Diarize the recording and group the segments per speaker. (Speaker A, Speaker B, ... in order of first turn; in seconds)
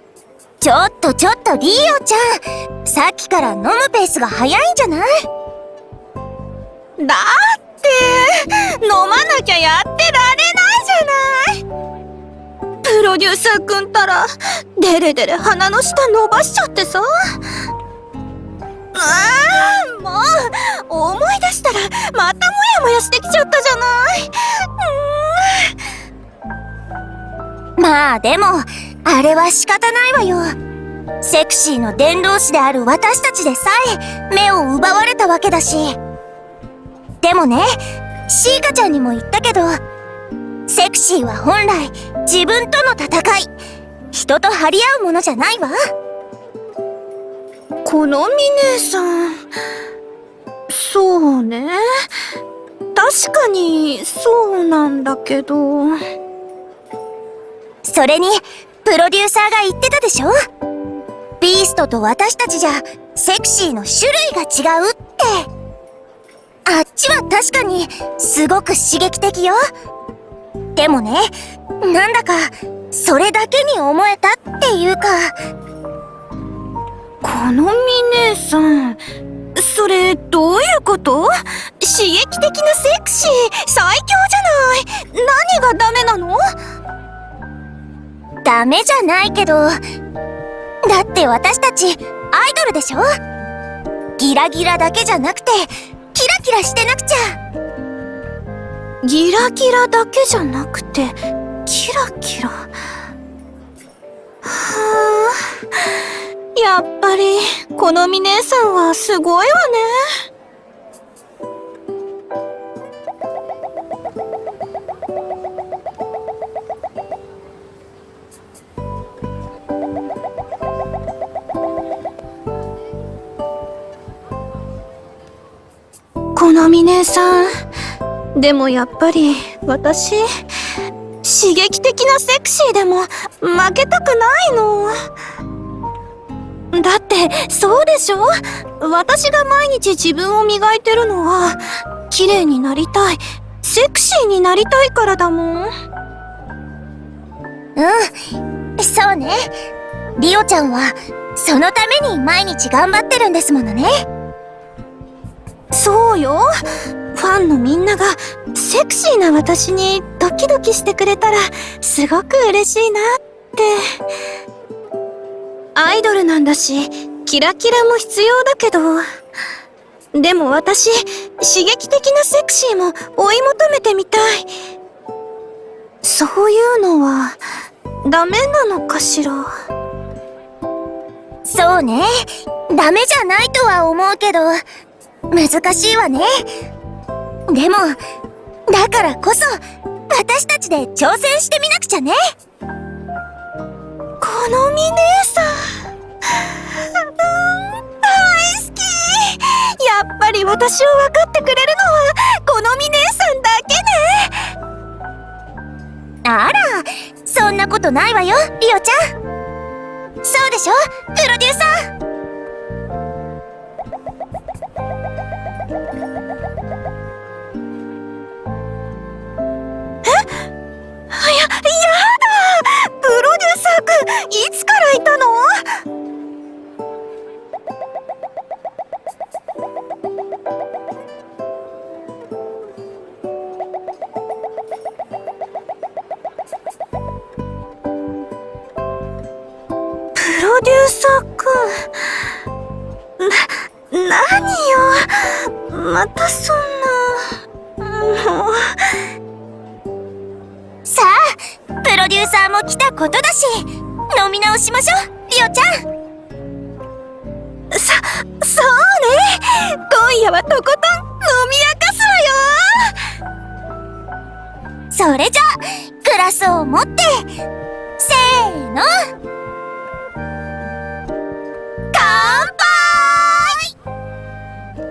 Speaker A: 0.6-5.1, 27.8-30.5, 31.2-36.0, 37.2-37.7, 38.3-39.8, 40.7-43.5, 44.1-45.8, 57.8-60.3, 61.4-65.5, 66.7-69.6, 70.8-75.3, 88.4-89.8, 90.9-93.0, 94.2-97.3, 147.8-148.1, 148.8-149.5, 150.2-153.9, 181.4-182.1, 182.7-184.6, 185.3-186.4, 187.5-188.0, 188.7-189.5, 190.1-192.2, 206.2-209.0, 210.2-211.8, 250.8-255.8, 264.9-267.2, 268.0-268.9
Speaker B: 7.0-11.6, 12.8-17.5, 18.9-25.8, 47.8-49.4, 50.7-52.1, 52.9-56.0, 77.2-79.0, 79.5-86.4, 99.0-102.6, 104.4-110.2, 126.3-127.5, 128.3-130.2, 131.2-134.9, 136.7-141.6, 142.1-145.7, 155.7-156.5, 157.1-164.0, 165.7-169.0, 170.1-174.5, 176.0-177.4, 178.0-179.5, 194.2-204.5, 220.0-220.3, 221.1-225.8, 240.2-242.2, 243.2-249.0, 257.7-262.9, 271.9-273.6